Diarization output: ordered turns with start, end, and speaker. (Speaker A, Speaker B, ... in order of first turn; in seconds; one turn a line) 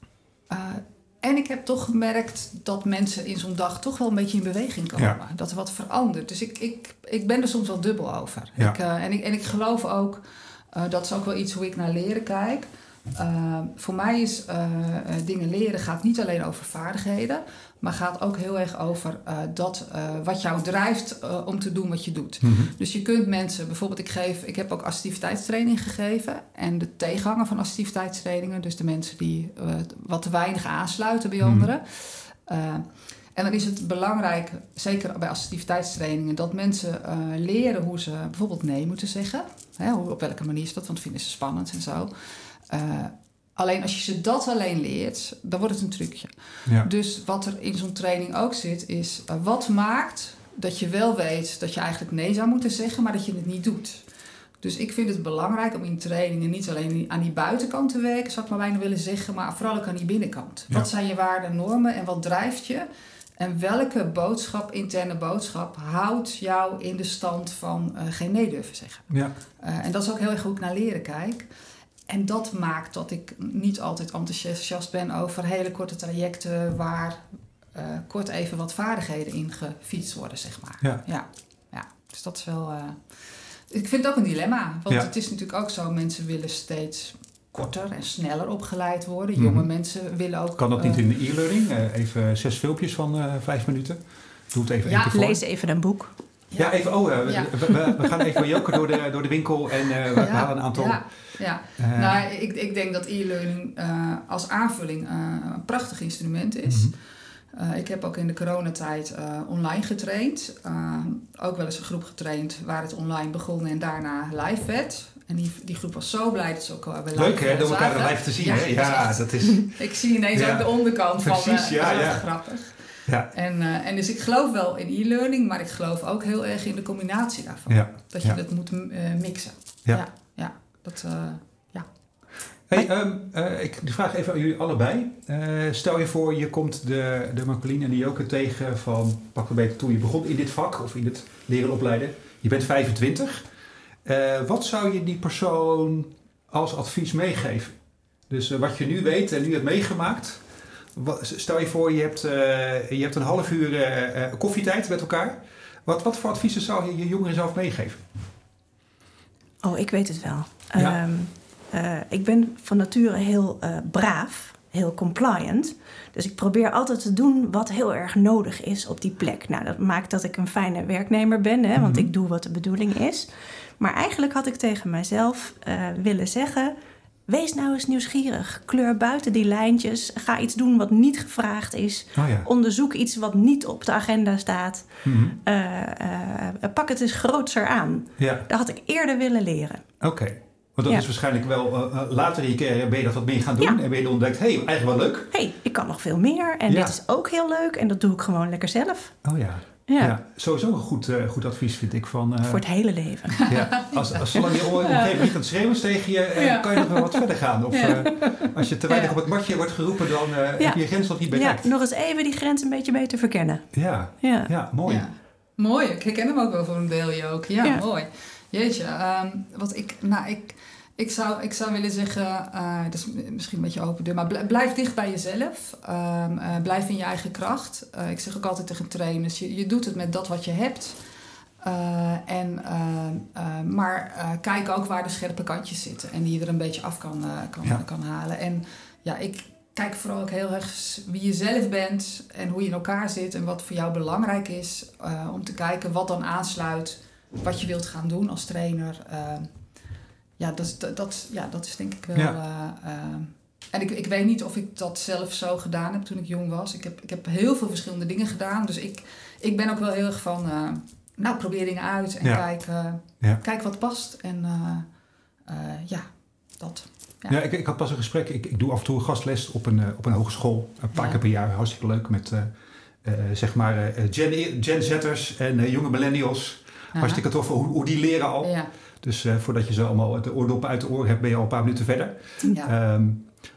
Speaker A: 0.5-42.1
Speaker B: 22.4-22.7
Speaker B: 31.4-31.7
Speaker A: 42.7-54.0
Speaker A: 54.6-62.9
Speaker A: 63.4-71.5
Speaker A: 72.1-83.1
Speaker A: 83.7-91.0
Speaker B: 89.4-89.7
Speaker B: 90.6-95.4
Speaker A: 94.8-95.2
Speaker C: 95.1-96.1
Speaker A: 96.5-97.8
Speaker B: 96.6-101.0
Speaker C: 97.7-98.2
Speaker A: 100.2-106.9
Speaker B: 101.8-102.2
Speaker B: 106.7-106.9
Speaker A: 107.5-131.9
Speaker B: 117.1-119.8
Speaker B: 120.3-122.3
Speaker B: 123.1-123.3
Speaker B: 127.7-128.4
Speaker B: 132.7-143.5
Speaker B: 144.1-147.8
Speaker B: 148.3-150.4
Speaker B: 150.9-158.0
Speaker C: 159.6-173.3
Speaker B: 171.8-172.1
Speaker C: 173.8-176.7
Speaker C: 177.3-189.8
Speaker B: 182.2-182.5
Speaker B: 185.1-185.4
Speaker B: 188.2-188.5
Speaker B: 190.0-195.3
Speaker C: 195.3-199.2
Speaker B: 196.7-197.0
Speaker B: 199.2-202.6
Speaker C: 199.9-200.2
Speaker C: 202.4-203.6
Speaker A: 203.4-204.0
Speaker B: 203.4-211.7
Speaker C: 204.3-205.3
Speaker A: 206.4-206.9
Speaker C: 206.8-207.2
Speaker A: 207.7-208.1
Speaker C: 208.0-208.5
Speaker A: 208.9-209.2
Speaker C: 210.6-214.5
Speaker B: 213.7-215.1
Speaker A: 214.9-231.0
Speaker A: 231.6-249.5
Speaker A: 250.4-264.9
Speaker A: 265.5-267.4
Speaker B: 267.3-272.5
Speaker A: 270.9-271.2
Speaker B: 273.0-283.3
Speaker A: 276.9-277.2
Speaker A: 278.4-278.7